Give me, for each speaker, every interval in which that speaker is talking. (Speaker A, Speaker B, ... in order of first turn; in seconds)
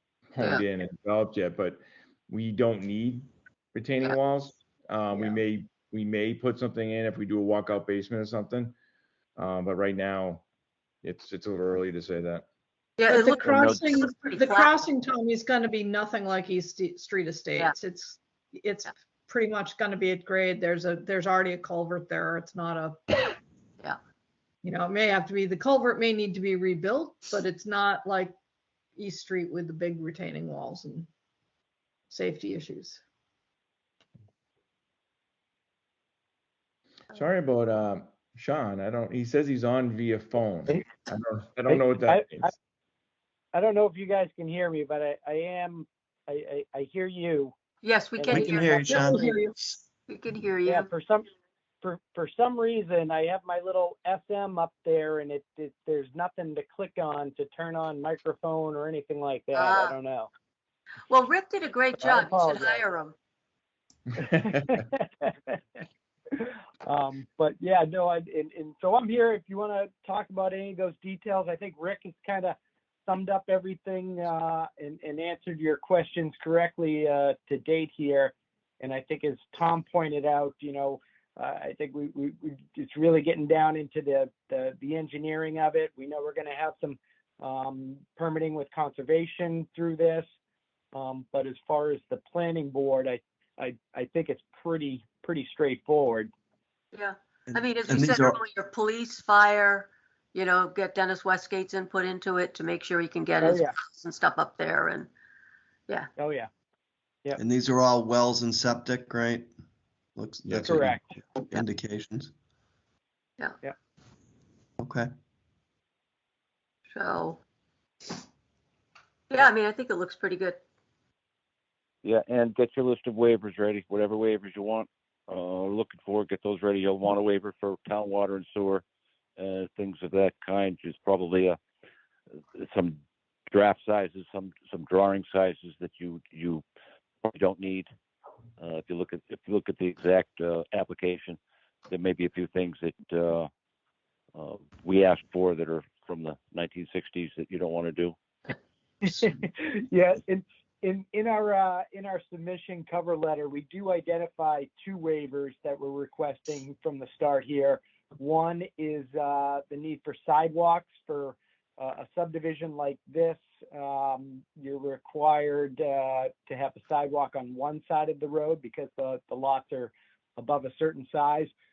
Speaker A: 0.3-8.7, 9.3-10.4, 11.0-12.4, 37.1-42.5, 64.2-64.8, 110.5-110.8
Speaker B: 13.0-14.8, 47.8-49.3, 50.1-50.9, 59.5-59.9, 61.1-63.1, 96.9-105.1, 116.9-117.4, 119.3-120.6
Speaker C: 13.1-23.3, 24.6-28.3, 29.0-31.1, 32.1-33.0, 48.9-49.5
Speaker D: 13.4-14.0, 122.0-128.8, 129.4-131.6, 132.5-136.6, 137.2-137.9, 138.6-141.4, 141.9-143.5, 144.3-148.2
Speaker E: 41.7-42.5, 43.5-47.5, 48.2-48.8, 50.6-51.3, 51.8-60.3, 62.0-62.8, 64.7-65.8, 66.3-90.3, 90.9-96.3, 103.4-103.7, 106.2-106.5, 110.6-111.1, 149.0-171.5
Speaker F: 48.3-49.8, 97.5-98.4, 107.4-109.5, 110.2-112.3, 114.8-115.1